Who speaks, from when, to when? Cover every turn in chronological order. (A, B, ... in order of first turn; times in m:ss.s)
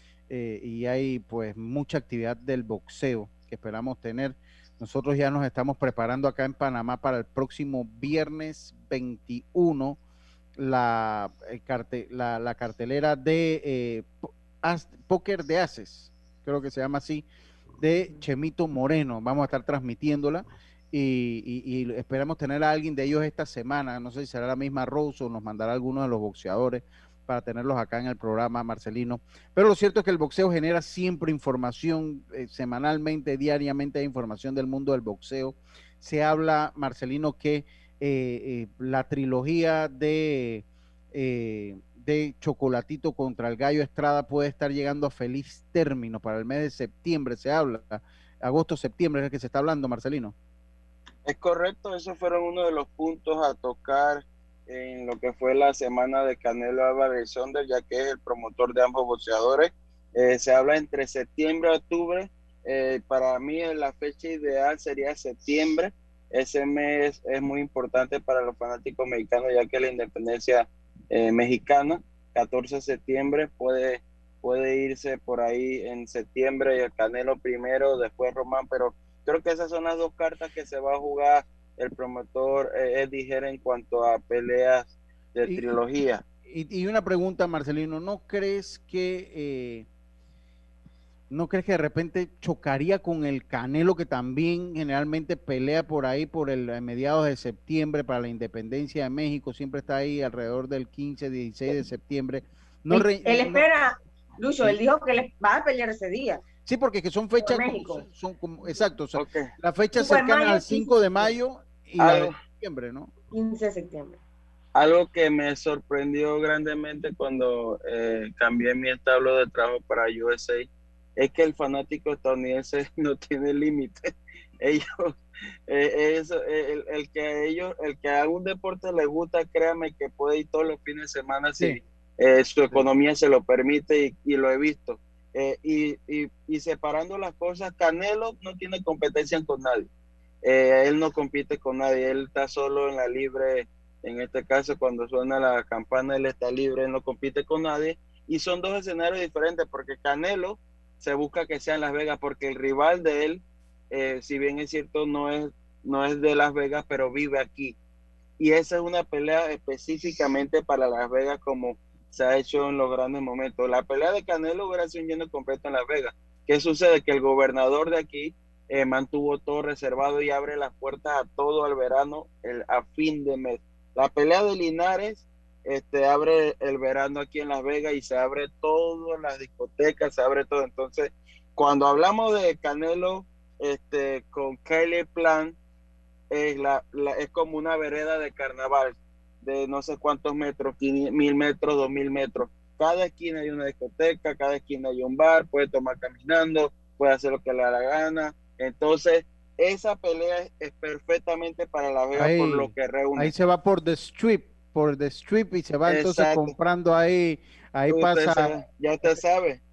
0:00.3-0:10.0 A
0:10.6-0:17.3 A
0:17.8-0:50.4 A
0:51.3-1:26.2 B
1:25.5-1:25.7 A
1:26.5-1:29.9 A
1:31.3-1:43.7 A
1:42.9-1:46.4 C
1:46.7-1:53.1 A
1:47.4-1:48.0 C
1:49.2-1:49.5 B
1:50.0-1:51.3 C
1:52.0-1:52.4 B
1:53.3-1:54.2 C
1:54.8-2:04.0 B
2:04.6-2:05.1 B
2:05.7-2:19.9 B
2:20.4-2:37.8 B
2:38.4-3:05.6 B
3:06.3-3:23.3 B
3:22.2-3:28.5 A
3:25.9-3:26.5 B
3:27.9-3:29.6 B